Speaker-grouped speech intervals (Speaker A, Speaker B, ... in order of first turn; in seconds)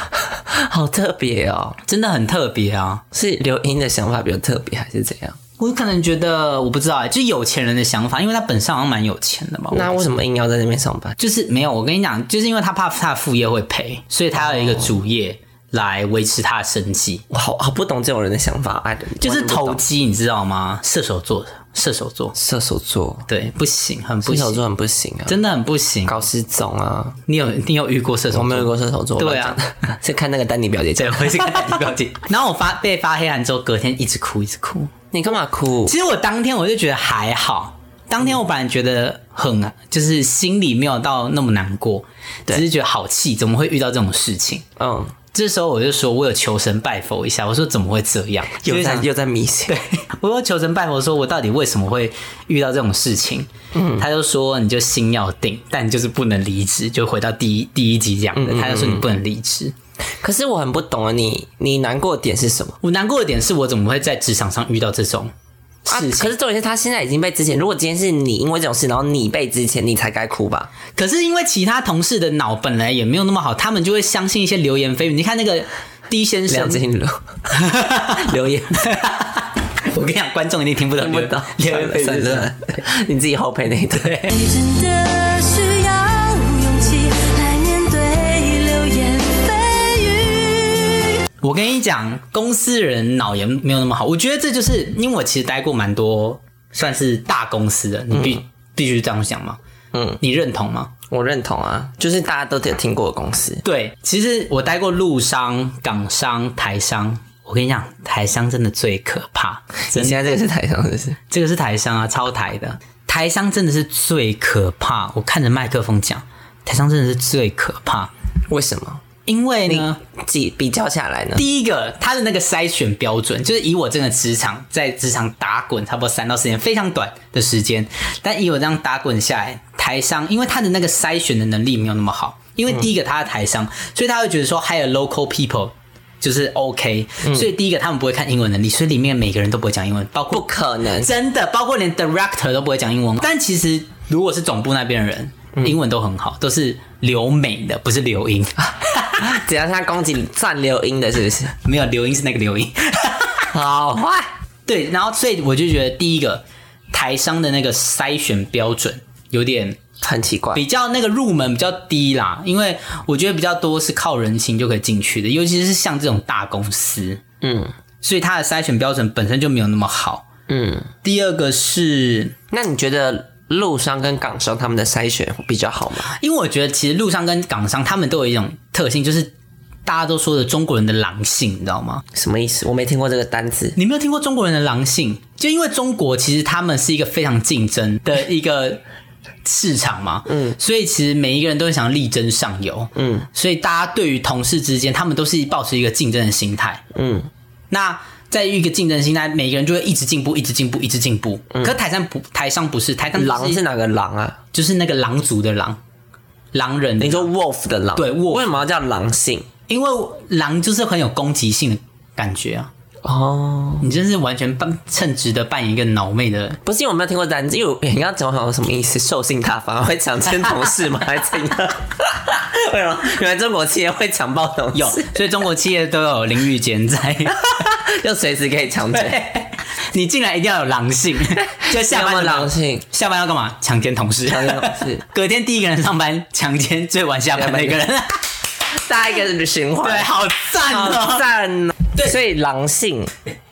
Speaker A: 0.2-1.8, 3.1-5.4, 9.7-11.2, 14.4-14.9, 17.3-19.8, 22.3-23.3, 24.2-25.4, 26.0-27.2, 28.3-31.8, 35.1-35.9, 44.8-45.1, 48.6-49.8, 53.7-54.1, 58.3-59.1, 60.2-62.8, 65.8-70.7, 76.5-77.3, 78.1-78.9, 81.0-84.3, 98.1-98.4, 99.9-100.2, 101.1-103.6, 109.9-111.2, 118.5-119.0, 119.7-121.4, 137.2-137.5, 140.3-141.1, 149.2-151.5, 153.5-154.3, 160.0-160.6, 167.4-167.7, 170.5-170.9, 172.5-176.1, 182.1-183.8, 190.3-190.6, 192.9-193.3, 196.9-197.3, 203.1-204.4, 207.0-209.5, 213.0-213.9, 216.6-225.2, 227.5-229.2, 231.6-232.8, 234.3-235.0, 237.3-237.8, 238.7-243.1
Speaker B: 1.9-3.0, 5.6-9.9, 11.2-17.2, 19.2-22.3, 23.3-24.6, 25.3-26.2, 27.3-29.6, 31.0-34.9, 35.9-44.7, 45.3-49.1, 49.7-59.7, 62.8-65.3, 65.9-66.3, 71.0-76.8, 77.5-82.8, 83.9-84.3, 91.4-99.6, 100.2-100.9, 103.6-110.2, 111.3-118.1, 119.2-120.0, 121.3-149.2, 151.6-153.5, 154.7-159.8, 160.5-167.2, 168.0-170.3, 171.0-172.3, 176.1-179.3, 179.8-182.0, 183.8-188.8, 189.4-196.8, 197.7-203.6, 204.5-205.8, 206.5-207.3, 207.9-208.5, 209.7-212.7, 213.8-216.6, 224.7-227.4, 228.9-238.2, 239.8-241.3
Speaker C: 84.3-91.1